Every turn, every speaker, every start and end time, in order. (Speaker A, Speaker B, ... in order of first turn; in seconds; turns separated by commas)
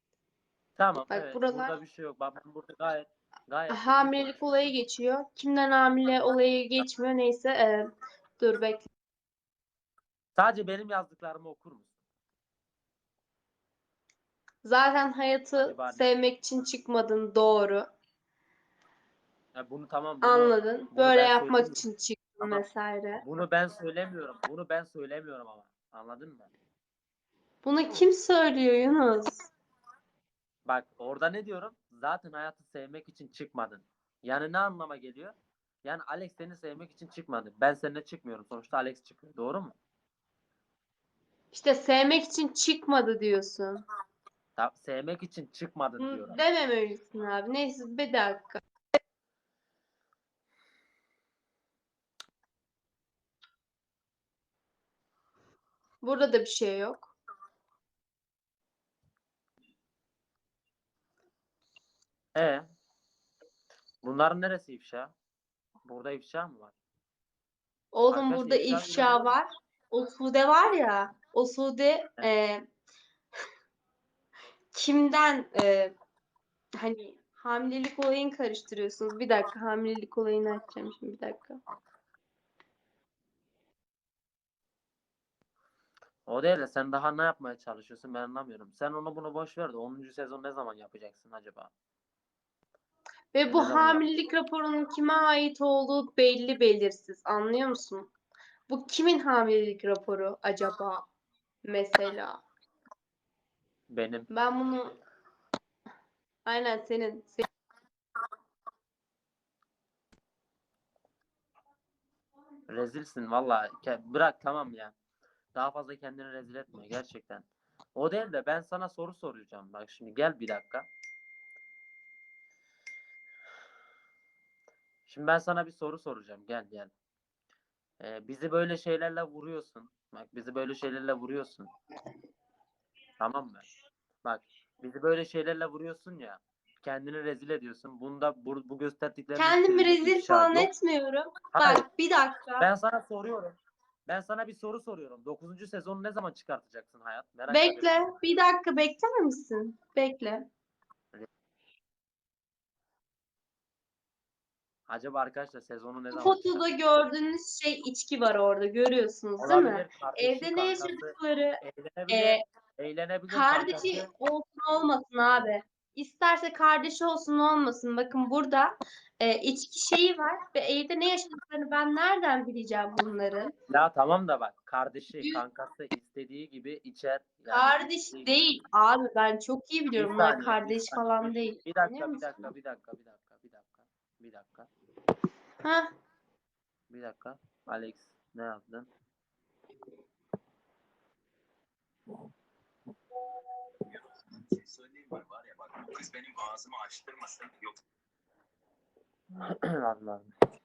Speaker A: 0.8-4.7, Speaker B: 1.1-1.7, Speaker B: 3.7-7.9, Speaker B: 8.4-8.9, Speaker A: 10.3-11.9, Speaker B: 14.6-17.9, Speaker A: 15.6-16.1, Speaker A: 19.5-21.8, Speaker B: 20.2-23.2, Speaker A: 23.2-26.5, Speaker B: 27.6-29.5, Speaker A: 30.6-39.8, Speaker B: 41.5-43.8, Speaker A: 44.6-46.4, Speaker B: 46.0-48.6, Speaker B: 56.0-57.1, Speaker A: 62.3-62.6, Speaker A: 64.0-65.1, Speaker A: 65.8-66.7, Speaker B: 67.9-72.6, Speaker A: 68.1-69.3, Speaker B: 74.7-75.9, Speaker B: 76.8-81.6, Speaker A: 86.2-91.7, Speaker B: 93.3-98.1, Speaker A: 93.5-94.1, Speaker B: 98.7-101.1, Speaker B: 101.6-102.4, Speaker A: 103.9-104.3, Speaker B: 104.3-104.9, Speaker B: 106.5-107.4, Speaker A: 112.7-114.9, Speaker A: 115.5-120.9, Speaker A: 125.1-126.9, Speaker A: 128.0-131.7, Speaker A: 133.2-133.6, Speaker A: 134.2-140.7, Speaker B: 139.3-142.7, Speaker A: 141.5-141.8, Speaker A: 142.6-143.5, Speaker A: 144.1-148.2, Speaker B: 147.5-150.5, Speaker A: 154.9-156.6, Speaker B: 156.1-162.4, Speaker A: 159.4-164.1, Speaker B: 163.3-173.5, Speaker A: 173.7-178.3, Speaker B: 177.5-182.3, Speaker A: 179.9-184.7, Speaker B: 185.6-185.9, Speaker A: 186.9-188.9, Speaker C: 194.7-197.5, Speaker A: 199.4-200.3